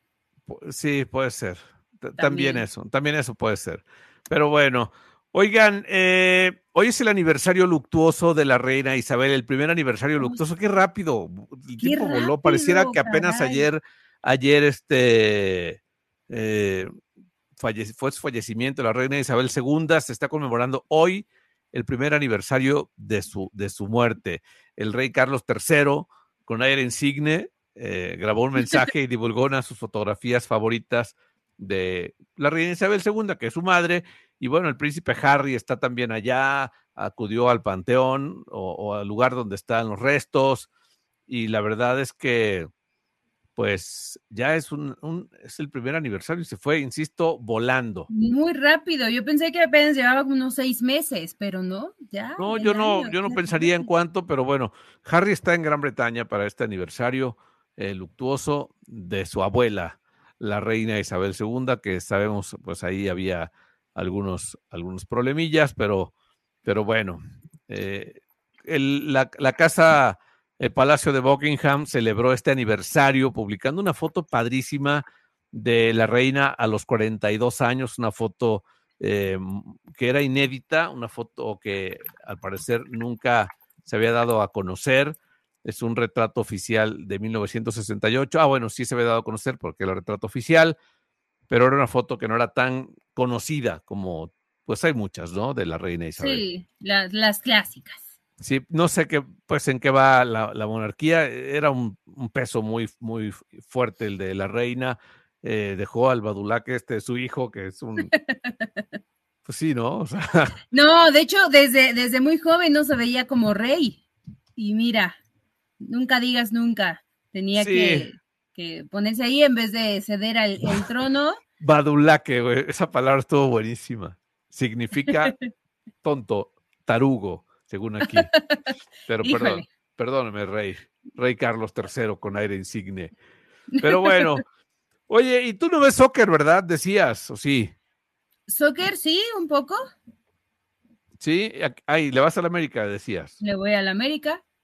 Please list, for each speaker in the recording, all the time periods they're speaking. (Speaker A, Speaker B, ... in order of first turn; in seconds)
Speaker A: 0.5-16.9, 17.6-40.7, 41.3-42.7, 43.5-48.1, 52.4-66.1, 66.6-90.8, 91.5-96.4, 98.4-108.1, 109.4-110.5, 117.5-118.1, 121.6-125.3, 126.0-128.3, 129.1-133.1, 133.8-134.4, 135.1-137.7, 141.2-143.4
Speaker B: 2.2-2.6, 11.8-13.7, 48.1-53.9, 96.2-98.1, 108.2-108.8, 110.7-114.0, 114.6-115.2, 115.8-121.4, 125.1-125.3, 128.0-128.7, 129.2-129.7, 133.7-134.4, 138.5-139.8, 143.4-144.4